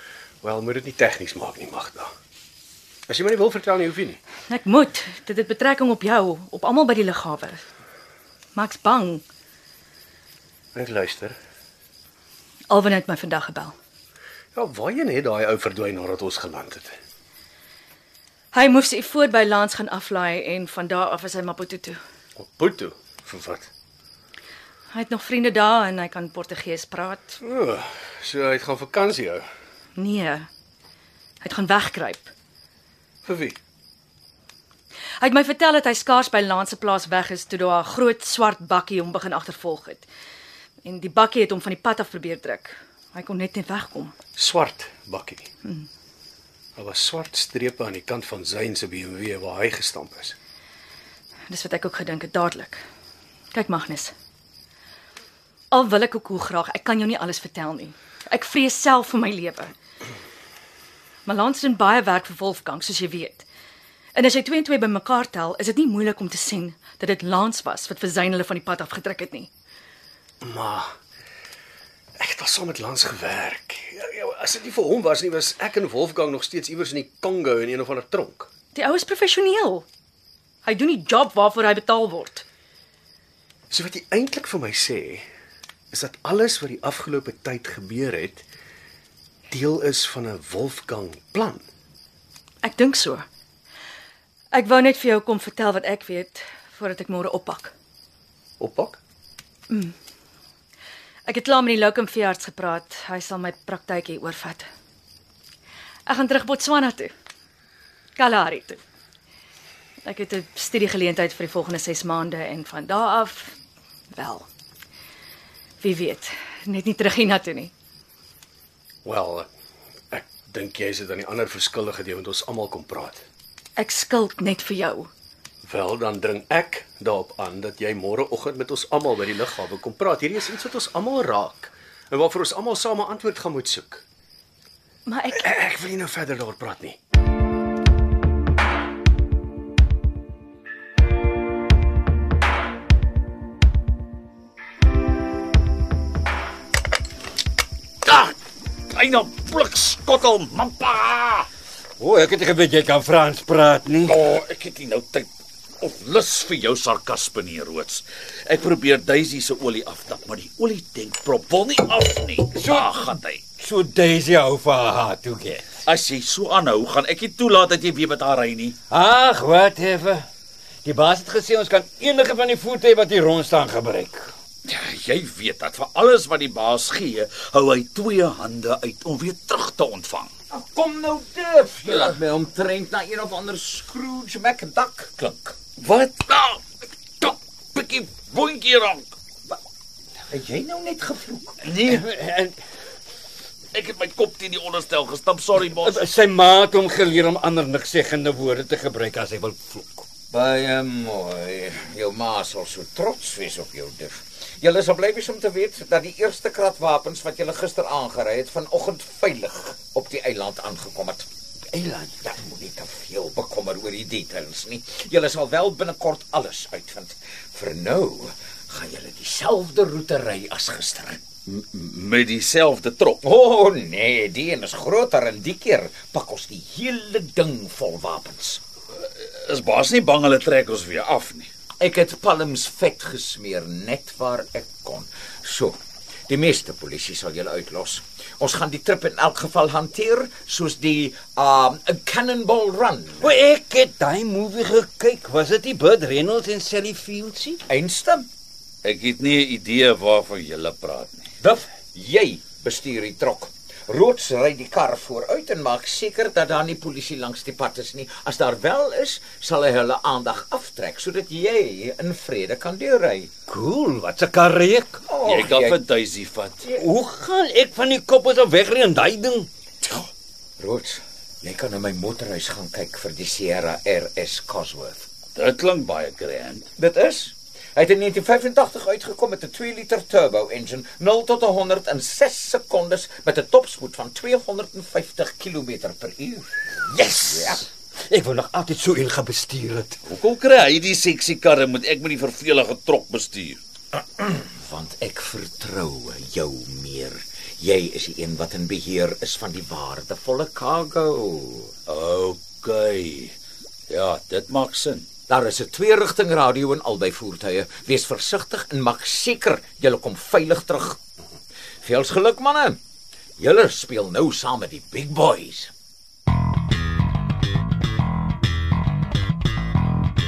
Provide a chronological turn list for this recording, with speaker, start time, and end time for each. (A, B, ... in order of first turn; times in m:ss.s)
0:00.4-0:02.1 A
0:03.1-0:04.2 A
0:04.5-0:07.6 B
0:08.6-0:09.2 B
0:10.8-0:11.4 A
0:12.7-0:13.8 B
0:14.6-0:16.9 A
0:18.5-0:22.0 B
0:22.4-0:23.7 A
0:24.9-0:27.4 B
0:27.4-0:29.5 A
0:30.0-0:30.5 B
0:31.4-0:32.3 B
0:33.2-0:33.6 A
0:35.2-0:40.1 B
0:40.8-0:44.1 B
0:44.4-0:45.4 A
0:46.8-0:50.4 A
0:51.5-0:52.8 B
0:53.5-0:54.1 B
0:55.7-0:59.7 B
1:01.2-1:03.4 B
1:04.1-1:09.5 B
1:10.4-1:10.9 A
1:12.2-1:18.5 A
1:18.8-1:19.9 B
1:20.6-1:22.4 B
1:23.7-1:25.2 A
1:25.9-1:28.4 A
1:29.5-1:31.6 A
1:32.6-1:33.3 B
1:34.5-1:37.7 B
1:38.6-1:39.0 A
1:39.7-1:39.9 B
1:41.3-1:44.7 B
1:46.1-1:47.1 B
1:48.2-1:48.8 B
1:50.0-1:53.6 B
1:54.1-1:54.4 B
1:55.8-1:57.7 B
1:59.0-1:59.5 A
2:00.1-2:03.2 A
2:03.8-2:05.1 B
2:05.6-2:14.0 A
2:15.1-2:15.5 B
2:15.4-2:17.0 A
2:28.0-2:28.3 C
2:28.9-2:31.5 C
2:32.0-2:34.2 D
2:34.1-2:35.3 C
2:35.8-2:43.4 C
2:42.5-2:45.7 D
2:45.8-2:48.7 C
2:48.9-2:50.3 D
2:50.8-2:54.3 D
2:54.6-3:00.3 C
3:00.5-3:05.6 E
3:05.8-3:06.6 C
3:07.2-3:09.1 C
3:10.3-3:11.6 E
3:11.6-3:12.1 C
3:11.8-3:12.6 D
3:13.7-3:16.0 C
3:15.8-3:20.1 D
3:20.3-3:31.3 E
3:31.7-3:32.1 D
3:32.1-3:41.2 E
3:41.5-3:43.2 C
3:43.2-3:48.6 E
3:49.2-3:51.5 C
3:51.8-3:55.8 E
3:56.3-4:03.3 E
4:03.2-4:07.6 D
4:07.7-4:08.3 E
4:08.8-4:11.3 C
4:11.4-4:23.3 E
4:23.5-4:25.0 D
4:25.1-4:25.8 E
4:25.2-4:26.7 C
4:26.6-4:29.5 D
4:29.8-4:35.1 E
4:35.3-4:36.7 C
4:36.8-4:47.6 E
4:47.0-4:50.0 D
4:50.0-4:53.6 C
4:54.2-5:01.7 E
5:01.9-5:03.3 C
5:03.9-5:05.1 C
5:05.3-5:11.0 E
5:11.8-5:12.8 E
5:13.4-5:15.7 E